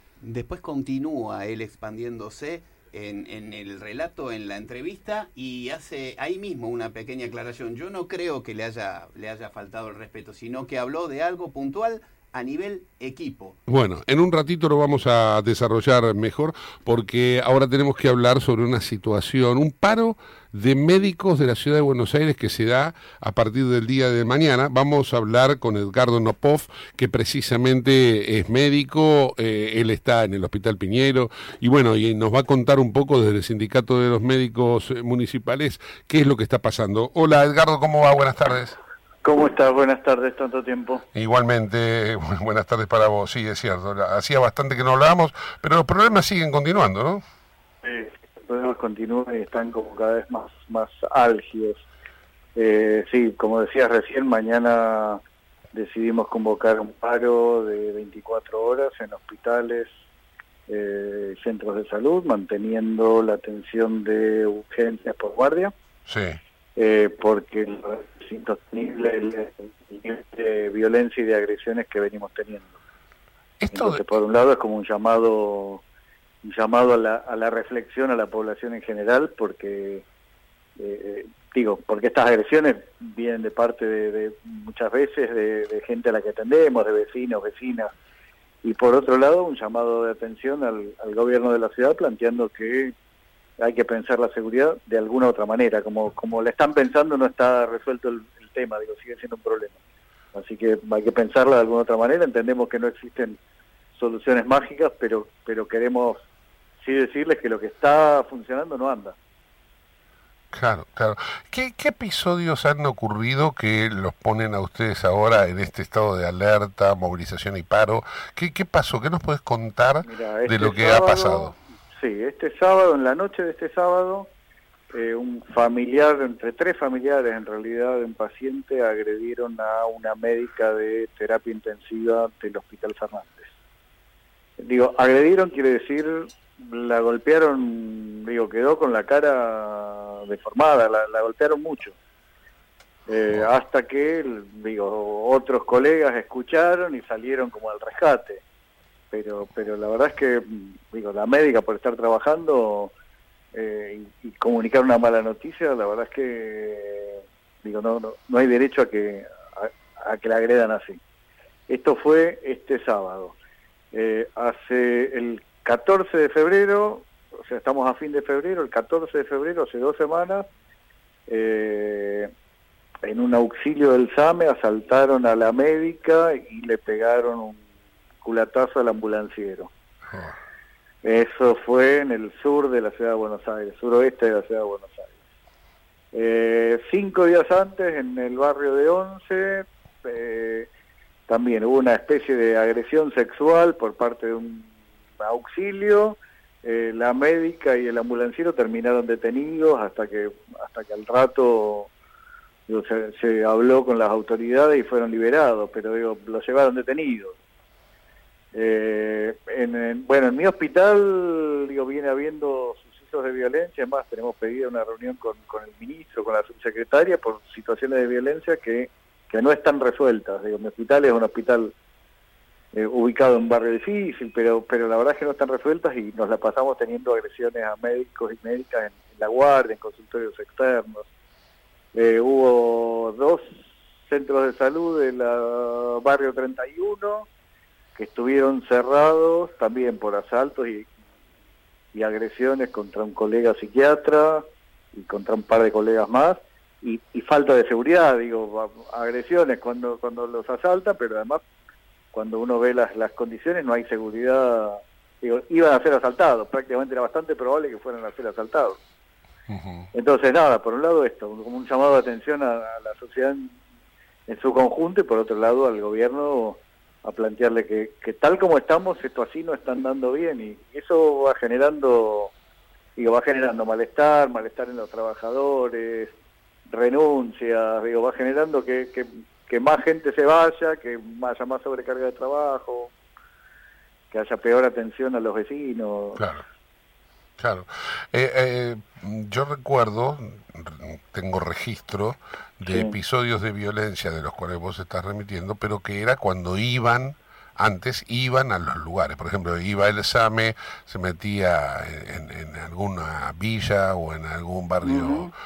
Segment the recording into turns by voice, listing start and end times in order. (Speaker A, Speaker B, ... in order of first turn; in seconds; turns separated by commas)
Speaker A: 0.2-13.6, Speaker B: 13.7-38.8, Speaker C: 39.2-41.0, Speaker B: 41.1-47.2, Speaker C: 47.8-51.8, Speaker C: 52.6-55.2, Speaker C: 55.7-59.9, Speaker C: 60.7-65.7, Speaker B: 66.1-66.4, Speaker C: 66.8-72.7, Speaker B: 73.6-74.1, Speaker C: 73.7-75.8, Speaker C: 76.4-80.0, Speaker C: 80.8-87.9, Speaker C: 88.6-92.9, Speaker C: 93.6-99.8, Speaker C: 100.3-103.4, Speaker C: 104.0-106.2, Speaker C: 106.8-109.2, Speaker B: 110.5-121.5, Speaker C: 120.0-124.3, Speaker C: 124.9-133.5, Speaker C: 134.6-141.9, Speaker C: 143.1-148.4, Speaker C: 149.1-152.9, Speaker C: 153.6-161.0, Speaker C: 161.7-163.3, Speaker C: 163.9-170.5, Speaker C: 171.3-172.3, Speaker C: 173.1-177.6, Speaker C: 178.2-179.7, Speaker B: 180.1-180.3, Speaker C: 181.0-185.1, Speaker C: 186.1-190.7, Speaker C: 191.3-201.9, Speaker C: 202.7-207.3, Speaker C: 208.6-221.7, Speaker C: 222.8-231.0, Speaker C: 231.9-237.3, Speaker C: 238.0-240.9, Speaker C: 241.9-251.4, Speaker C: 252.1-258.8, Speaker B: 259.5-259.9, Speaker C: 259.9-263.6, Speaker C: 264.3-272.3, Speaker C: 273.0-276.1, Speaker C: 276.7-282.9, Speaker C: 284.1-286.2, Speaker B: 286.2-286.4, Speaker B: 287.4-305.3, Speaker C: 292.7-292.9, Speaker C: 304.9-305.3